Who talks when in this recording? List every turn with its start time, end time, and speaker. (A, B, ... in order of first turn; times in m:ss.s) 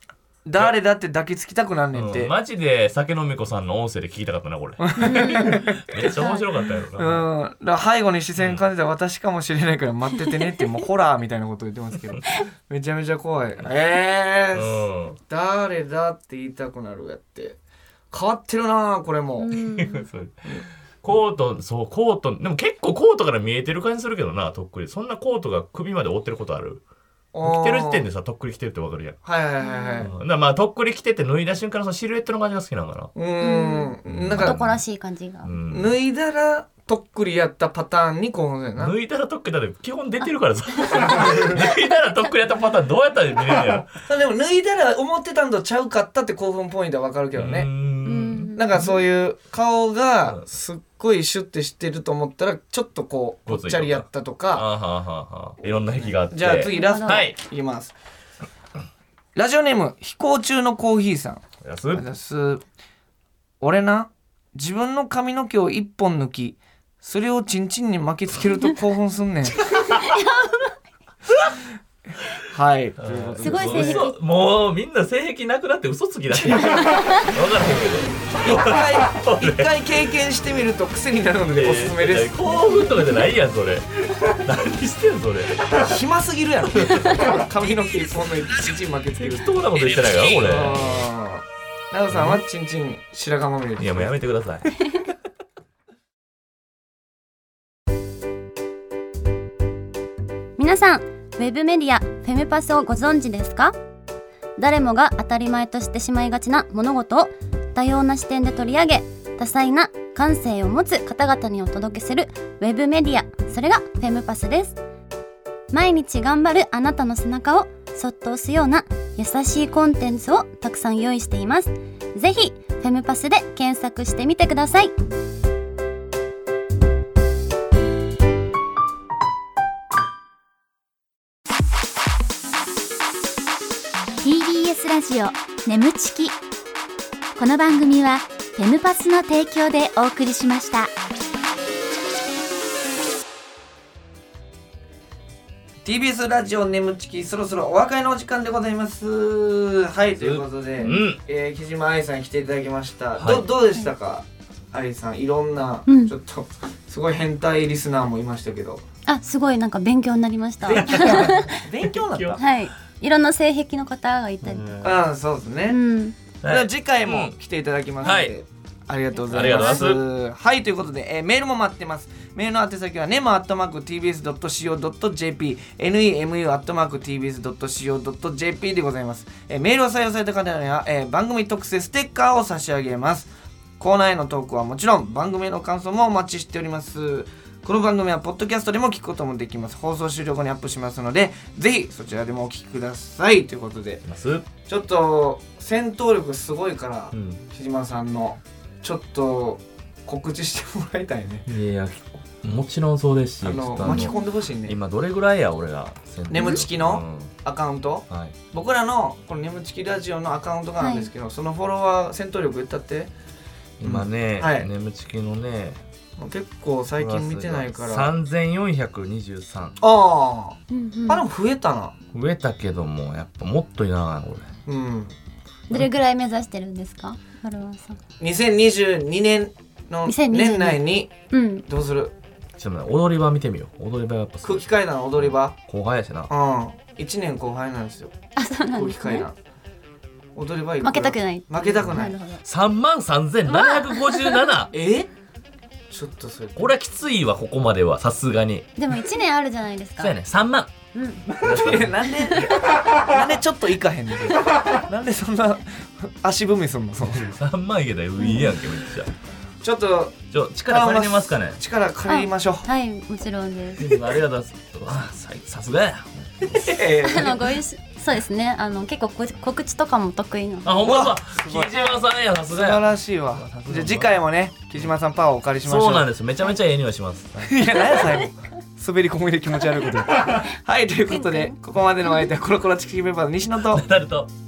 0:00.4-0:02.3 A
0:01.9-0:07.3 B
0:04.8-0:06.2 A
0:05.0-0:06.4 C
0:07.0-0:17.6 A
0:08.4-0:08.6 B
0:14.5-0:15.2 B
0:18.1-0:19.6 A
0:19.4-0:20.1 C
0:19.6-0:20.5 B
0:21.0-0:26.8 B
0:27.3-0:28.1 A
0:27.4-0:29.2 B
0:29.2-0:30.1 A
0:29.6-0:30.1 C
0:30.0-0:33.1 B
0:33.2-0:34.6 A
0:33.4-0:35.5 C
0:34.1-0:34.8 B
0:35.4-0:35.9 B
0:35.7-0:39.0 A
0:38.8-0:43.9 B
0:40.8-0:41.7 C
0:44.1-0:47.7 A
0:47.4-0:48.9 B
0:48.0-0:48.6 C
0:48.5-0:54.7 A
0:53.5-0:57.4 B
0:55.9-0:58.0 A
0:56.7-0:57.2 C
0:59.4-1:02.6 A
1:01.6-1:02.0 B
1:03.6-1:09.6 A
1:09.6-1:10.2 B
1:10.0-1:10.7 C
1:12.4-1:14.1 A
1:13.0-1:19.7 B
1:13.4-1:14.2 C
1:16.3-1:16.7 A
1:16.6-1:17.3 C
1:18.4-1:22.4 A
1:21.5-1:25.8 B
1:22.7-1:23.2 C
1:25.7-1:29.6 A
1:26.8-1:27.3 B
1:29.2-1:31.1 B
1:30.4-1:34.2 A
1:32.1-1:32.4 B
1:33.8-1:34.7 B
1:40.6-1:43.7 C
1:44.6-1:54.8 C
1:55.7-2:04.9 C
2:14.2-2:16.4 D
2:17.4-2:20.9 D
2:25.8-2:38.8 A
2:30.2-2:31.2 B
2:33.2-2:33.5 B
2:35.9-2:36.1 C
2:39.1-2:41.6 C
2:40.7-2:42.4 A
2:40.7-2:41.4 B
2:42.0-2:42.4 B
2:42.4-2:44.8 C
2:44.4-2:45.0 B
2:44.8-2:45.8 A
2:45.7-2:46.2 C
2:46.4-2:47.4 B
2:46.4-3:14.0 A
2:48.0-2:48.3 B
2:49.2-2:49.9 C
2:49.3-2:50.0 B
3:14.1-3:14.5 B
3:14.7-3:21.5 A
3:17.1-3:17.4 B
3:21.5-3:27.4 B
3:23.4-3:24.8 A
3:23.8-3:24.2 C
3:26.3-3:33.1 A
3:28.1-3:28.4 B
3:30.8-3:31.1 C
3:33.8-3:35.8 B
3:33.8-3:34.7 A
3:36.2-3:38.1 A
3:37.0-3:39.8 B
3:39.8-3:42.0 A
3:40.7-3:41.2 C
3:42.1-3:44.5 B
3:44.7-3:45.1 A
3:45.7-3:48.0 C
3:48.2-3:51.1 A
3:50.0-3:51.7 C
3:51.7-3:52.1 A
3:52.6-3:56.3 B
3:54.4-3:55.6 A
3:56.3-3:58.1 A
3:58.4-3:59.3 C
3:58.7-3:59.4 A
4:00.4-4:02.2 A
4:00.8-4:02.4 C
4:02.4-4:04.7 B
4:03.5-4:04.5 C
4:04.7-4:05.1 A
4:05.9-4:06.7 A
4:06.6-4:08.7 B
4:08.8-4:10.2 C
4:10.0-4:10.7 B
4:10.9-4:11.5 C
4:11.4-4:12.5 B
4:11.4-4:17.3 A
4:17.1-4:19.1 B
4:18.2-4:18.5 C
4:19.6-4:22.7 A
4:20.3-4:21.6 B
4:22.1-4:24.0 C
4:23.8-4:26.8 B
4:26.6-4:27.6 A
4:27.0-4:30.7 C
4:30.6-4:34.1 B
4:30.8-4:31.7 A
4:32.5-4:36.1 A
4:35.6-4:37.9 B
4:37.4-4:43.8 A
4:41.1-4:41.6 C
4:43.7-4:44.3 B